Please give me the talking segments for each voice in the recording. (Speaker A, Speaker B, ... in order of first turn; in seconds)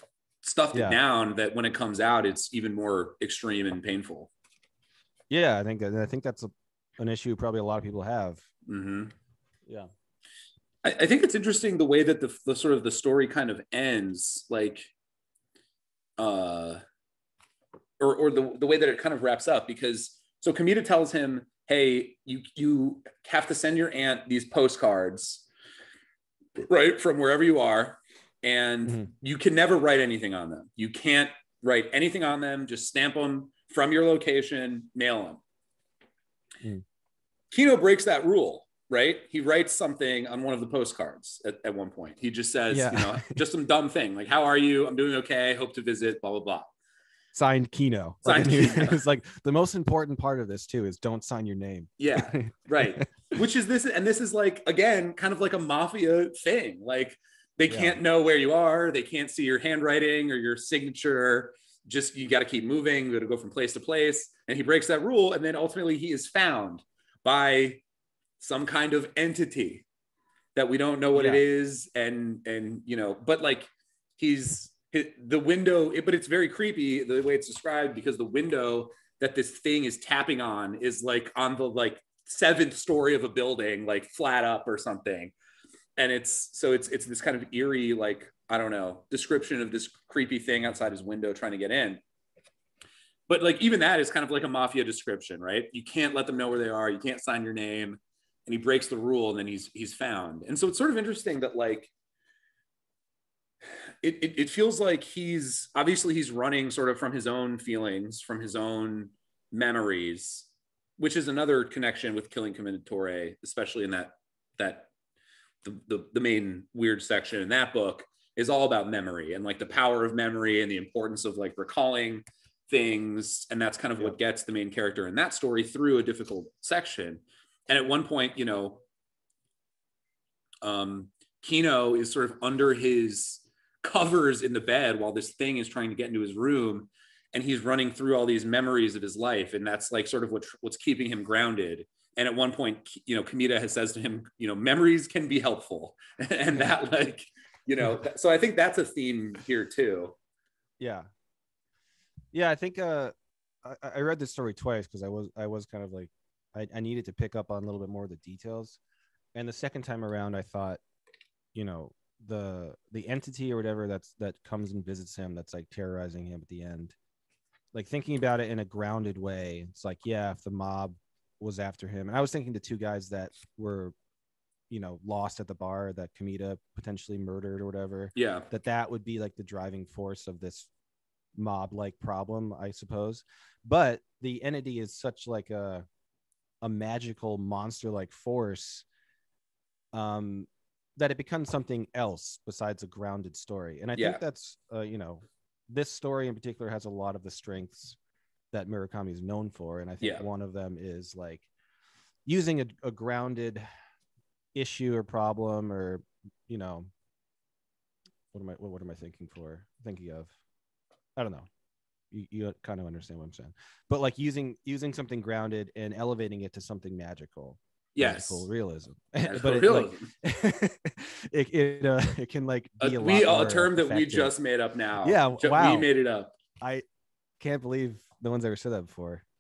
Speaker A: 0.4-4.3, 8.7-9.1, 10.8-14.9, 16.2-16.8, 18.0-25.4, 26.6-35.4, 37.5-46.7, 48.2-49.0, 52.0-67.8, 68.4-69.8, 70.5-85.3, 86.0-92.0, 93.3-101.9, 104.0-114.9, 115.6-128.8, 130.6-150.2, 178.2-178.5, 194.0-194.2, 217.9-218.5, 219.2-220.1, 222.8-226.3
Speaker B: 0.7-1.0, 5.3-8.4, 42.7-43.4, 47.3-53.0, 57.7-58.0, 71.2-71.4, 150.8-151.1, 152.3-158.8, 159.3-160.8, 161.5-166.9, 167.7-173.9, 174.7-180.7, 181.3-185.8, 186.6-188.9, 189.9-198.0, 198.5-201.5, 202.3-203.6, 204.6-206.9, 208.3-210.3, 211.2-211.5, 212.1-224.3, 225.0-225.9, 227.4-229.2